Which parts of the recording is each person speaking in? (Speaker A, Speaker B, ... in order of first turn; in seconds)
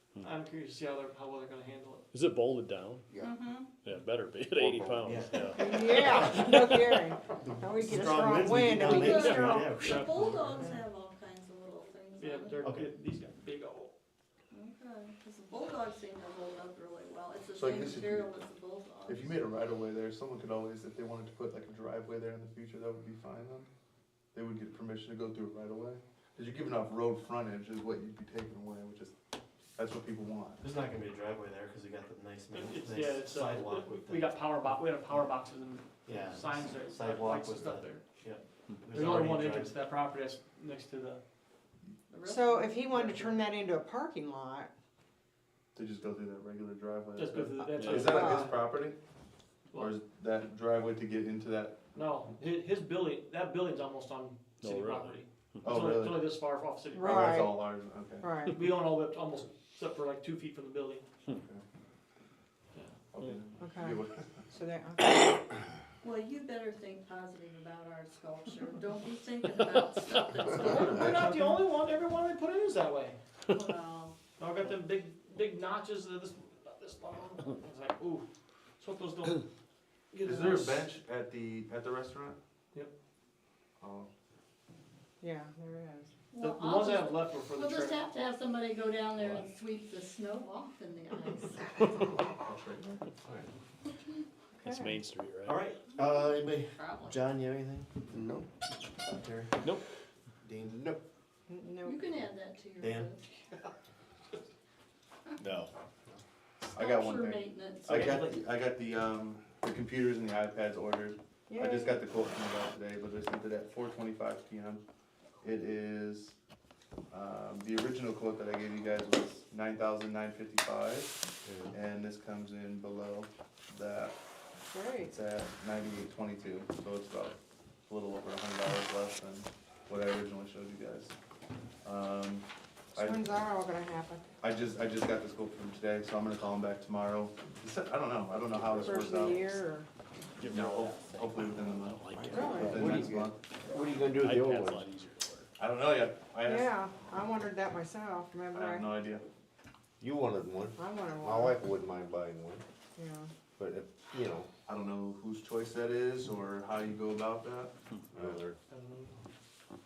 Speaker A: 0.2-2.1, 12.2-13.9, 32.5-38.0, 38.9-41.2, 42.9-43.4, 47.1-48.6, 49.7-50.0, 51.9-57.5, 58.5-61.1, 70.5-73.2, 74.4-78.3, 78.8-79.4, 80.1-80.9, 86.4-88.1, 107.9-108.3, 158.7-159.1
Speaker B: 2.1-7.0, 9.8-10.7, 42.3-42.6, 54.6-55.7, 88.0-88.3, 94.7-95.6, 140.4-143.2, 143.9-145.5
Speaker C: 3.2-3.7, 9.1-12.7, 14.5-19.5, 42.1-42.5, 66.0-71.2, 73.6-74.2, 86.3-91.7, 95.9-96.3, 96.8-97.2, 101.9-103.2, 106.8-108.0
Speaker D: 4.5-5.1, 98.1-98.5, 100.6-101.0, 121.5-121.7, 138.6-139.2, 142.1-144.9, 150.0-152.6, 153.6-154.5, 158.1-158.6
Speaker E: 5.0-6.5, 7.5-10.4, 12.6-12.9, 30.6-34.4, 36.0-39.8, 95.5-98.0, 99.0-99.7, 100.5-100.8, 102.8-103.1
Speaker F: 5.6-9.8, 42.3-44.7, 47.8-48.6, 56.9-58.6, 63.6-65.4, 70.8-71.6, 85.2-86.1, 94.5-95.0, 101.5-102.0, 111.5-112.0, 124.7-125.2, 132.9-134.3, 138.8-139.9, 142.3-142.8, 146.4-148.9, 150.8-151.6, 153.0-153.3
Speaker G: 17.6-18.3, 19.1-23.7, 24.3-29.1, 29.8-30.6, 45.8-49.0, 49.7-51.8, 55.6-56.4, 57.0-58.4, 61.3-61.6, 63.1-64.4, 80.2-82.4, 83.8-84.1, 92.0-93.1, 106.7-114.8, 115.4-116.4, 117.1-124.2, 125.1-131.2, 131.8-133.4, 134.4-139.6, 140.4-143.4, 145.6-146.8, 148.5-149.2, 154.7-158.2